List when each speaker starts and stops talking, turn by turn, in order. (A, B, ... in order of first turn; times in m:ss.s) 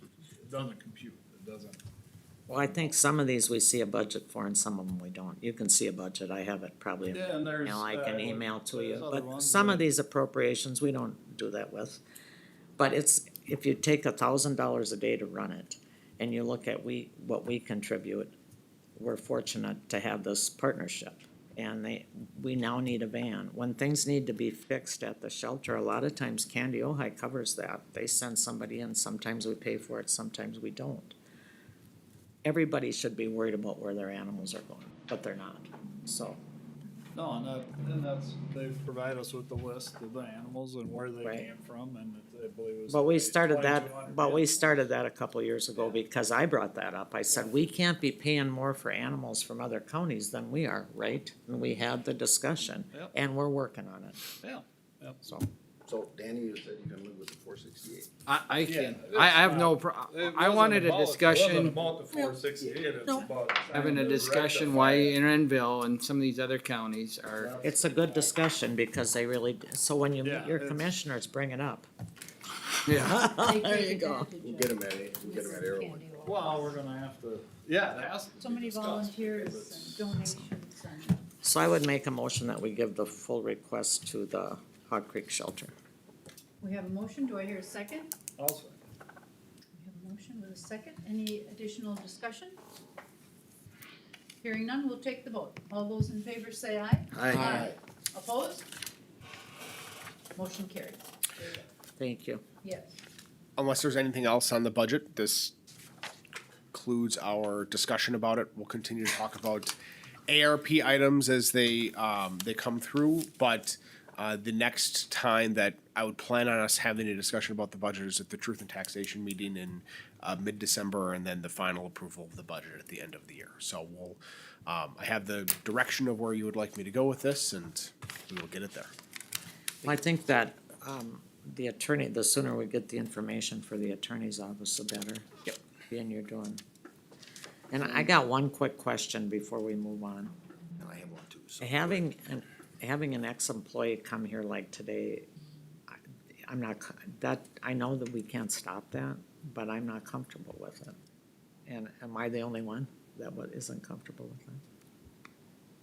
0:00.4-0:01.8 A
0:02.5-0:12.0 B
0:07.1-0:09.9 A
0:12.8-0:18.3 B
0:19.0-0:31.2 B
0:32.4-0:36.4 B
0:37.1-0:44.8 A
0:41.2-0:41.5 B
0:42.9-0:54.2 B
0:54.4-0:55.2 A
0:55.8-0:58.1 C
0:58.2-1:01.8 D
0:58.6-1:05.2 A
1:02.6-1:03.2 C
1:03.7-1:07.5 D
1:07.3-1:08.3 A
1:07.6-1:11.9 B
1:10.2-1:10.9 A
1:12.8-1:13.2 D
1:13.0-1:14.3 B
1:13.2-1:16.8 E
1:14.4-1:16.1 C
1:16.1-1:20.3 A
1:18.4-1:21.2 E
1:21.4-1:25.7 B
1:26.6-1:28.1 E
1:28.4-1:28.8 A
1:29.8-1:32.6 E
1:34.4-1:38.7 E
1:37.1-1:37.7 D
1:40.3-1:41.6 E
1:42.0-1:42.4 B
1:42.6-1:43.0 E
1:43.6-1:45.5 F
1:46.7-1:49.8 F
1:50.3-2:08.9 F
2:09.8-2:16.6 B
2:17.7-2:20.3 B
2:20.8-2:22.1 C
2:21.6-2:25.3 B
2:25.9-2:31.0 B
2:31.6-2:34.6 B